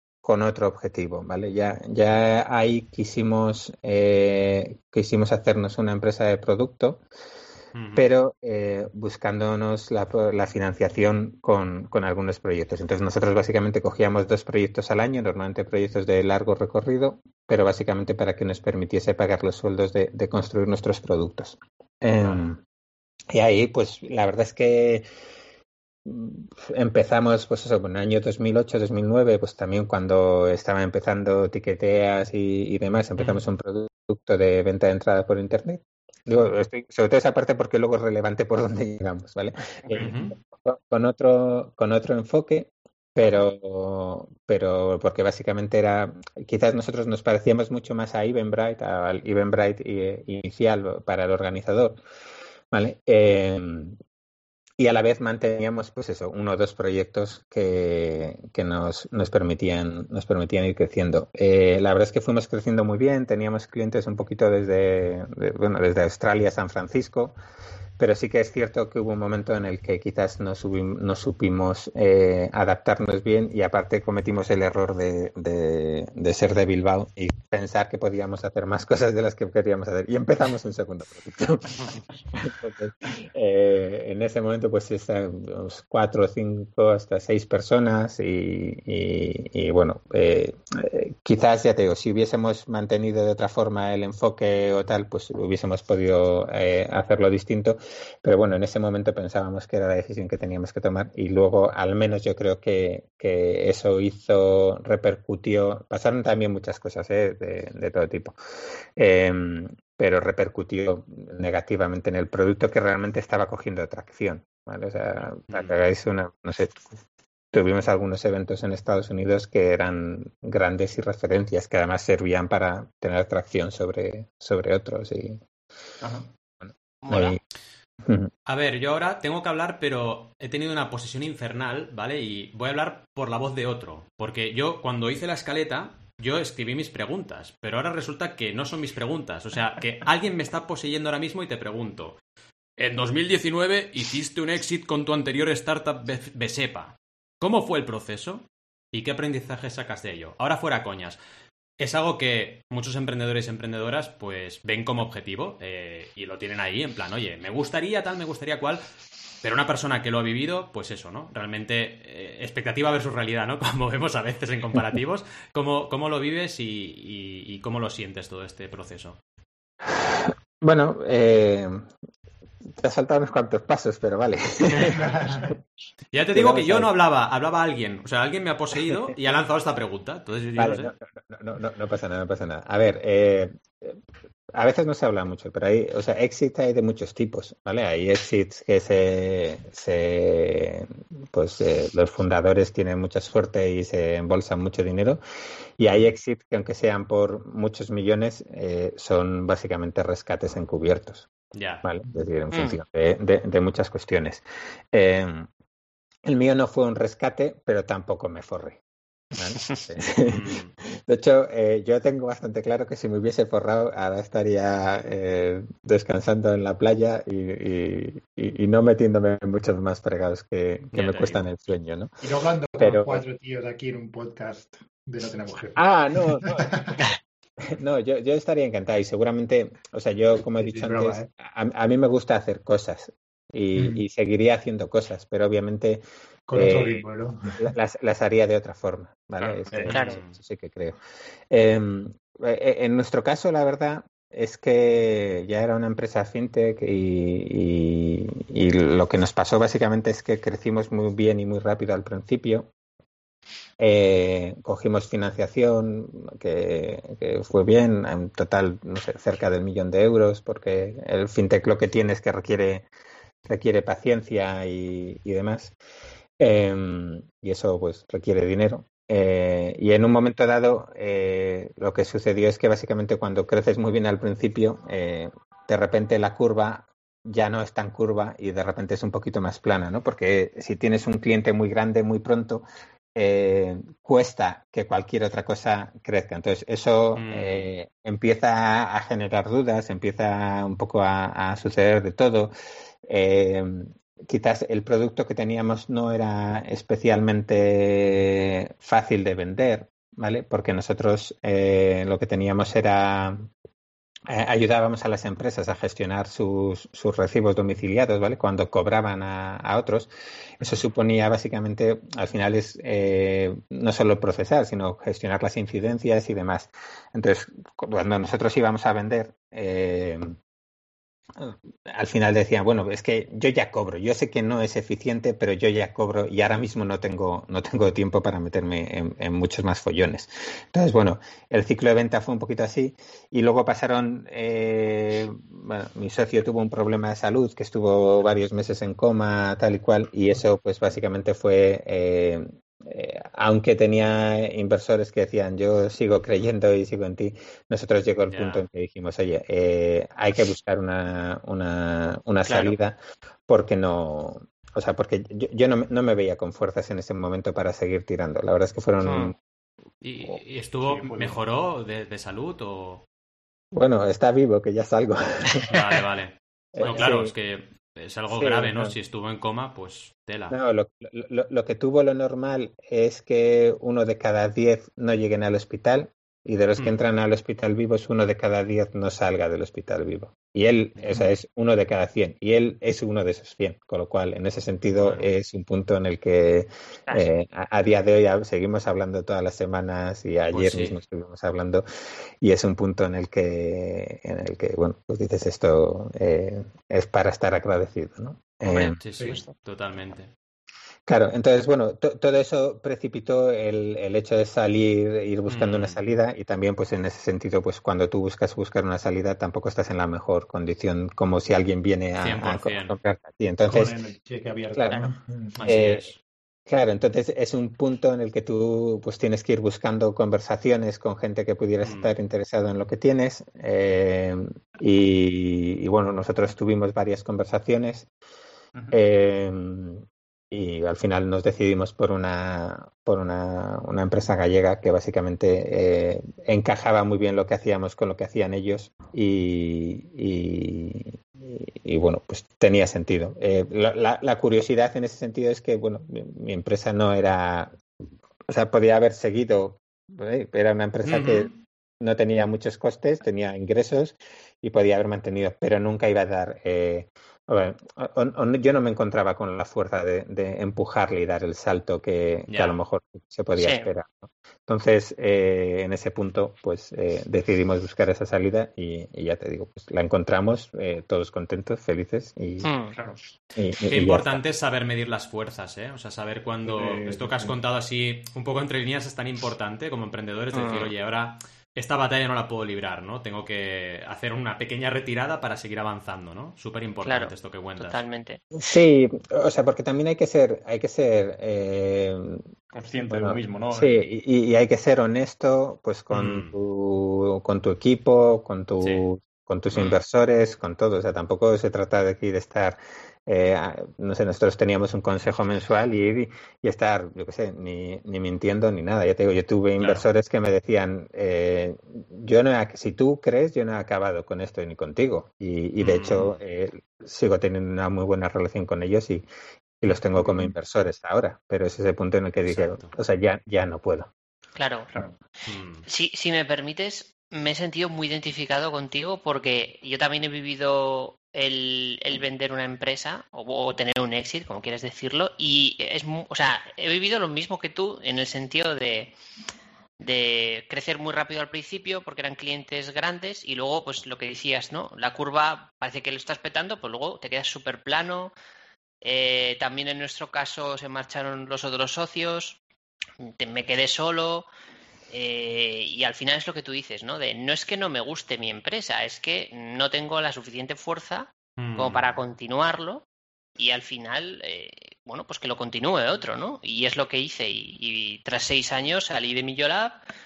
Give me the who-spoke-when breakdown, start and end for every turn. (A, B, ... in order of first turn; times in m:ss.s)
0:00.2-0:07.0 A
0:07.7-0:08.0 B
0:07.9-0:22.6 A
0:23.3-0:25.0 A
0:26.0-0:52.0 A
0:33.2-0:33.4 B
0:39.8-0:40.1 C
0:39.9-0:40.4 B
0:52.7-0:54.0 A
0:54.8-1:07.4 A
1:08.0-1:48.4 A
1:49.0-1:57.0 A
1:57.5-2:05.4 A
2:06.0-2:06.3 C
2:06.6-2:07.4 A
2:07.0-2:07.4 D
2:08.0-2:08.3 A
2:08.4-2:22.2 B
2:22.8-2:31.2 B
2:31.8-2:38.8 B
2:39.4-2:49.2 B
2:49.8-2:51.8 A
2:52.7-2:55.5 A
2:54.8-2:55.5 E
2:56.1-3:00.9 B
2:56.3-2:56.9 A
2:58.9-2:59.1 A
3:00.6-3:04.0 A
3:04.5-3:15.2 A
3:15.8-3:21.3 A
3:21.5-3:21.8 B
3:21.8-3:25.5 A
3:22.5-3:22.8 D
3:26.2-3:28.8 A
3:29.3-3:42.1 A
3:30.2-3:30.7 B
3:40.9-3:41.5 B
3:42.2-3:47.0 E
3:42.8-3:43.2 A
3:45.8-3:47.0 A
3:47.7-3:56.0 A
3:50.6-3:51.3 E
3:53.7-3:54.0 E
3:56.5-3:57.7 E
3:56.5-3:57.0 A
3:57.6-4:01.0 A
3:59.7-4:00.0 E
3:59.8-4:00.4 B
3:59.9-4:00.2 D
4:01.5-4:12.7 A
4:13.8-4:22.8 A
4:23.4-4:25.7 A
4:26.4-4:52.5 A
4:47.2-4:47.7 B
4:53.0-5:03.5 A
5:04.3-5:10.1 A
5:10.6-5:20.3 A
5:21.3-5:59.4 A
5:48.3-5:48.7 B
5:52.4-5:52.8 D
5:59.0-5:59.3 D
6:00.0-6:03.0 B
6:00.8-6:01.4 C
6:03.7-6:05.7 A
6:05.7-6:10.6 B
6:06.7-6:07.3 A
6:06.8-6:07.1 D
6:08.3-6:08.9 A
6:10.5-6:31.8 A
6:21.0-6:21.2 B
6:24.9-6:25.3 B
6:30.5-6:31.0 B
6:32.4-6:39.0 A
6:38.6-6:39.5 D
6:39.0-6:40.3 B
6:41.0-6:54.0 A
6:45.5-6:46.0 B
6:52.2-6:53.0 B
6:53.7-6:55.7 E
6:54.7-6:55.1 A
6:55.6-6:56.2 B
6:55.6-6:56.1 A
6:56.7-7:08.1 A
7:01.8-7:02.1 B
7:08.9-7:27.8 A
7:28.5-7:52.7 A
7:31.0-7:31.5 B
7:42.5-7:42.8 B
7:43.6-7:43.9 D
7:52.6-7:53.0 D
7:52.9-7:53.2 C
7:53.5-7:54.4 A
7:53.9-8:08.0 B
7:56.6-7:57.5 E
8:00.5-8:00.9 D
8:07.0-8:08.4 D
8:08.5-8:12.4 A
8:12.7-8:14.0 C
8:13.1-8:39.2 A
8:16.1-8:16.5 B
8:18.8-8:19.0 B
8:29.8-8:30.0 B
8:35.8-8:36.4 B
8:39.8-8:44.1 A
8:42.4-8:42.9 B
8:44.6-8:44.9 D
8:45.4-8:45.8 B
8:45.8-8:59.1 D
9:00.0-9:08.3 D
9:09.0-9:12.6 D
9:13.2-9:14.5 D
9:15.1-9:23.0 D
9:21.6-9:22.2 B
9:23.6-9:30.0 D